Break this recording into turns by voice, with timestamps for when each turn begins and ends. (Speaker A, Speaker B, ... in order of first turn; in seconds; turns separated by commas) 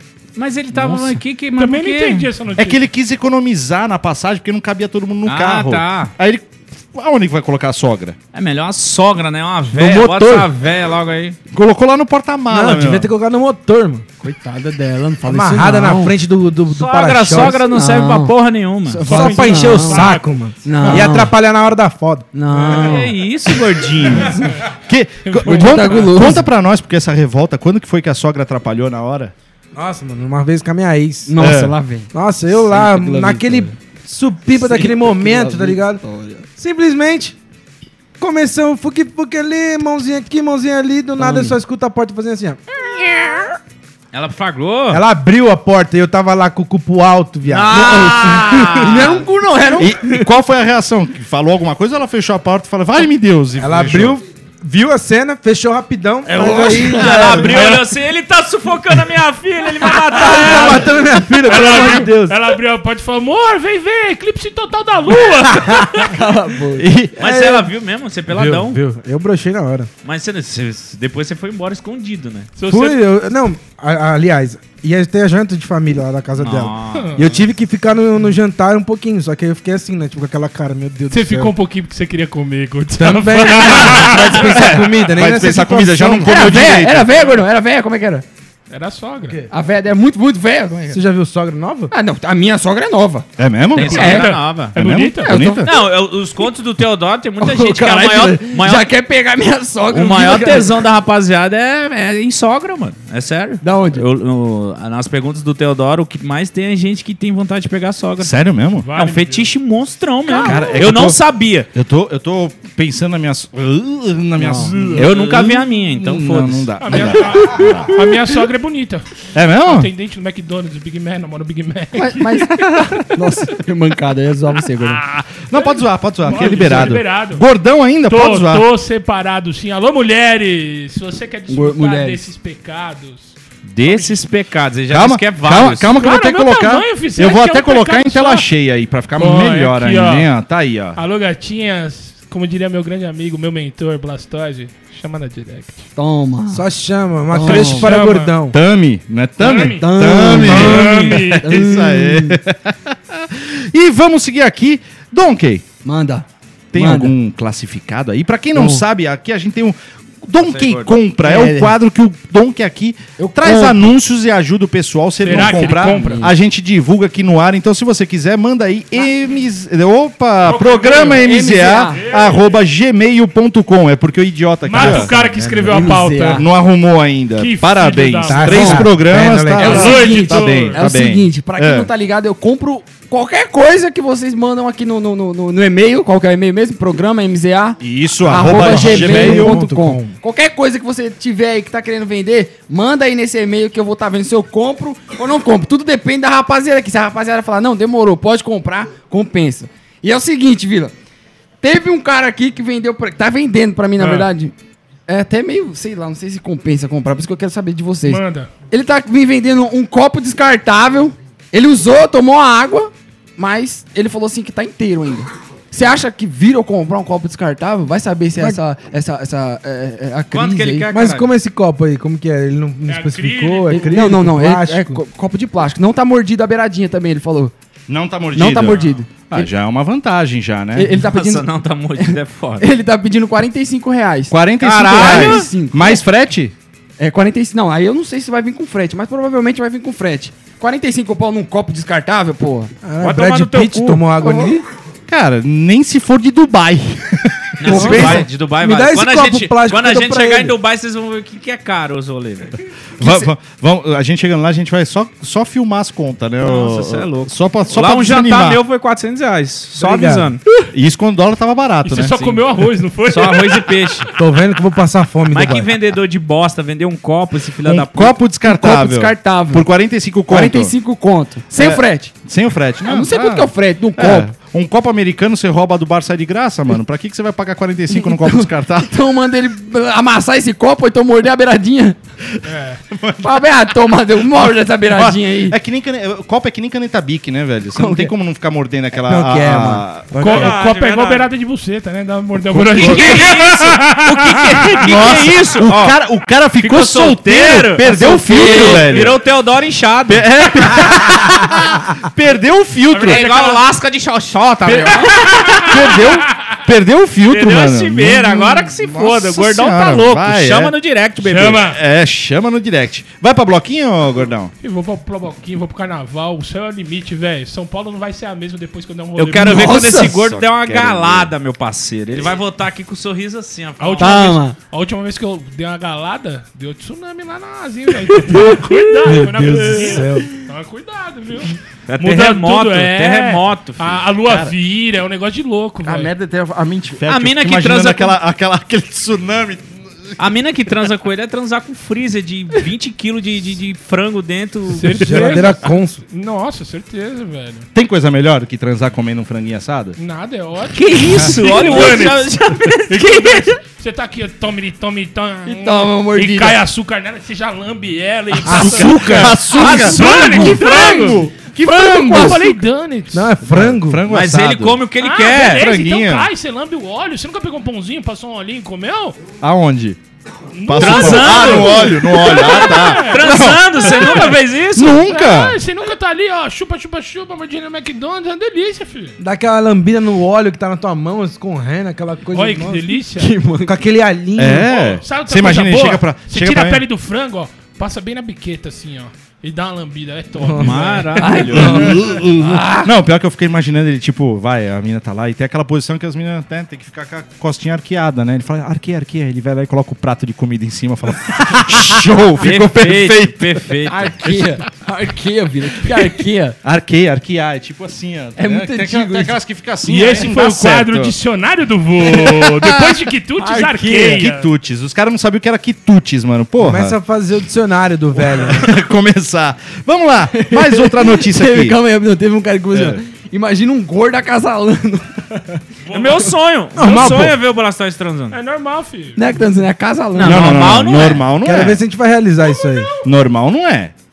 Speaker A: 0.3-2.3, Speaker B: 0.8-1.2, Speaker C: 1.6-2.8, Speaker B: 2.5-8.2, Speaker A: 5.2-6.1, Speaker A: 8.3-11.4, Speaker D: 9.7-10.5, Speaker B: 11.5-13.1, Speaker D: 12.5-14.1, Speaker E: 14.2-16.1, Speaker D: 15.2-17.6, Speaker A: 16.7-19.2, Speaker E: 17.3-18.3, Speaker E: 18.9-20.1, Speaker C: 19.0-20.3, Speaker D: 19.1-23.0, Speaker E: 20.6-21.3, Speaker B: 20.8-21.2, Speaker E: 22.3-23.1, Speaker A: 22.7-24.6, Speaker B: 24.8-29.3, Speaker C: 25.2-26.2, Speaker E: 25.4-26.5, Speaker D: 29.7-31.4, Speaker E: 31.3-33.7, Speaker B: 31.4-31.8, Speaker D: 32.1-37.4, Speaker E: 34.6-36.5, Speaker D: 38.2-42.6, Speaker E: 41.2-41.5, Speaker E: 43.0-43.4, Speaker A: 44.1-45.0, Speaker D: 44.9-49.1, Speaker A: 47.5-49.2, Speaker E: 47.7-50.1, Speaker B: 49.8-54.1, Speaker D: 53.6-57.6, Speaker E: 56.3-57.5, Speaker A: 56.4-60.9, Speaker C: 57.5-57.8, Speaker D: 60.1-62.4, Speaker B: 60.2-62.1, Speaker C: 61.5-66.2, Speaker E: 65.9-66.9, Speaker B: 66.8-67.1, Speaker D: 67.2-67.7, Speaker A: 67.2-68.8, Speaker D: 68.3-69.9, Speaker A: 70.0-72.5, Speaker C: 72.6-73.0, Speaker D: 72.7-81.5, Speaker A: 76.4-77.4, Speaker C: 76.9-77.2, Speaker C: 81.1-84.4, Speaker D: 82.9-86.5, Speaker B: 83.7-87.3, Speaker E: 86.2-88.2, Speaker C: 88.7-89.4, Speaker E: 89.5-91.0, Speaker D: 90.9-91.9, Speaker E: 91.9-93.3, Speaker B: 93.4-95.7, Speaker A: 93.7-94.7, Speaker E: 93.9-94.3, Speaker C: 93.9-95.5, Speaker E: 95.2-95.7, Speaker A: 95.6-98.9, Speaker E: 97.4-100.7, Speaker A: 99.9-108.3, Speaker E: 103.6-104.0, Speaker B: 108.2-108.9, Speaker C: 108.8-109.5, Speaker A: 108.9-111.7, Speaker C: 110.3-110.6, Speaker B: 110.4-111.2, Speaker B: 111.7-117.9, Speaker E: 114.4-115.0, Speaker A: 114.6-116.7, Speaker C: 116.8-119.0, Speaker E: 117.6-117.9, Speaker B: 119.3-119.9, Speaker C: 119.6-123.6, Speaker E: 121.9-125.0, Speaker B: 122.6-123.0, Speaker C: 124.8-127.4, Speaker B: 125.2-128.6, Speaker C: 128.1-134.2, Speaker E: 131.5-132.2, Speaker A: 133.7-135.9, Speaker B: 134.9-141.0, Speaker C: 135.9-138.5, Speaker C: 139.2-140.3, Speaker C: 140.9-145.9, Speaker E: 145.9-146.6, Speaker D: 146.5-148.6, Speaker E: 147.3-147.9, Speaker B: 147.4-147.9, Speaker C: 147.7-148.4, Speaker B: 148.5-155.7, Speaker C: 149.4-151.5, Speaker E: 149.8-152.4, Speaker D: 150.4-150.8, Speaker E: 155.8-157.1, Speaker B: 156.7-175.1, Speaker E: 158.5-158.8, Speaker A: 160.4-160.9, Speaker E: 161.2-161.7, Speaker E: 163.2-163.9, Speaker C: 165.2-166.3, Speaker E: 165.3-166.3, Speaker C: 170.4-172.5, Speaker E: 171.1-172.0, Speaker C: 174.6-176.4, Speaker D: 174.8-175.9, Speaker E: 175.7-176.4, Speaker B: 176.3-181.9, Speaker C: 177.3-178.8, Speaker D: 178.2-179.9, Speaker E: 178.4-200.9, Speaker C: 179.6-180.9, Speaker B: 187.8-189.6, Speaker D: 188.2-190.2, Speaker E: 201.6-204.5, Speaker C: 204.0-204.3, Speaker E: 205.1-220.9, Speaker C: 208.0-208.5, Speaker A: 220.3-221.3, Speaker D: 220.9-225.0, Speaker C: 222.9-223.9, Speaker E: 223.7-227.5, Speaker B: 227.9-231.0, Speaker E: 228.3-229.5, Speaker C: 228.6-229.1, Speaker E: 230.7-236.0, Speaker A: 231.0-232.7, Speaker B: 234.3-236.5, Speaker A: 234.6-235.5, Speaker E: 237.0-242.7, Speaker D: 242.8-244.6, Speaker A: 243.0-244.0, Speaker E: 244.2-244.6, Speaker B: 245.1-248.3, Speaker A: 247.6-253.2, Speaker E: 247.6-248.3, Speaker D: 247.7-250.5, Speaker B: 253.0-258.6, Speaker A: 256.4-260.4, Speaker D: 259.8-260.3, Speaker B: 260.7-262.4, Speaker C: 261.8-264.1, Speaker A: 263.1-264.1, Speaker D: 264.2-265.7, Speaker A: 265.3-268.2, Speaker B: 267.6-270.7, Speaker E: 268.4-269.7, Speaker E: 270.3-272.1, Speaker B: 271.5-279.0, Speaker E: 272.8-274.3, Speaker E: 277.9-282.0, Speaker C: 282.4-282.8, Speaker B: 282.9-283.3, Speaker E: 283.2-285.6, Speaker B: 284.9-290.5, Speaker E: 287.7-288.1, Speaker E: 288.9-290.5, Speaker C: 290.2-294.8, Speaker A: 290.2-291.3, Speaker B: 292.5-293.3, Speaker A: 292.6-296.0, Speaker B: 294.8-299.2, Speaker A: 296.6-301.5, Speaker E: 297.8-299.0, Speaker B: 300.1-303.2, Speaker C: 302.9-303.6, Speaker A: 303.0-306.0, Speaker B: 304.7-305.0, Speaker C: 304.9-306.6, Speaker B: 305.5-310.7, Speaker A: 307.3-311.6, Speaker C: 311.2-311.8, Speaker B: 311.3-314.5, Speaker C: 314.6-319.8, Speaker A: 319.1-324.4, Speaker E: 319.5-320.1, Speaker B: 319.9-321.3, Speaker C: 323.8-336.1, Speaker E: 324.0-324.6, Speaker D: 329.1-330.3, Speaker A: 331.9-334.0, Speaker B: 334.3-334.5, Speaker B: 335.8-340.1, Speaker A: 337.0-338.2, Speaker A: 340.2-345.6, Speaker C: 344.7-347.7, Speaker D: 344.8-346.0, Speaker B: 347.7-350.0, Speaker C: 350.0-363.3, Speaker A: 350.7-353.6, Speaker E: 355.4-356.6, Speaker D: 358.4-359.4, Speaker B: 358.4-362.6, Speaker A: 358.6-361.0, Speaker D: 363.1-364.0, Speaker B: 363.4-364.8, Speaker A: 364.1-365.7, Speaker C: 365.0-369.2, Speaker B: 365.5-366.3, Speaker B: 369.4-370.0, Speaker C: 370.5-373.4, Speaker B: 370.6-375.6, Speaker A: 370.8-375.0, Speaker C: 375.0-379.1, Speaker D: 379.2-382.9, Speaker C: 382.3-383.4, Speaker E: 383.1-383.8, Speaker D: 383.6-384.7, Speaker B: 384.4-386.8, Speaker C: 384.6-391.9, Speaker D: 390.4-390.8, Speaker A: 390.6-391.9, Speaker E: 391.2-392.9, Speaker B: 391.5-403.7, Speaker A: 402.4-404.5, Speaker E: 403.9-406.6, Speaker B: 406.6-411.1, Speaker E: 408.4-409.4, Speaker C: 409.8-414.5, Speaker B: 412.0-413.0, Speaker E: 413.4-414.2, Speaker B: 414.1-416.9, Speaker D: 416.6-418.7, Speaker B: 418.2-421.8, Speaker E: 420.3-425.6, Speaker B: 422.7-423.0, Speaker A: 425.9-428.4, Speaker D: 426.7-427.4, Speaker C: 428.3-429.3, Speaker E: 429.1-430.8, Speaker A: 430.1-431.2, Speaker B: 430.2-431.8, Speaker D: 431.4-432.9, Speaker B: 433.0-433.9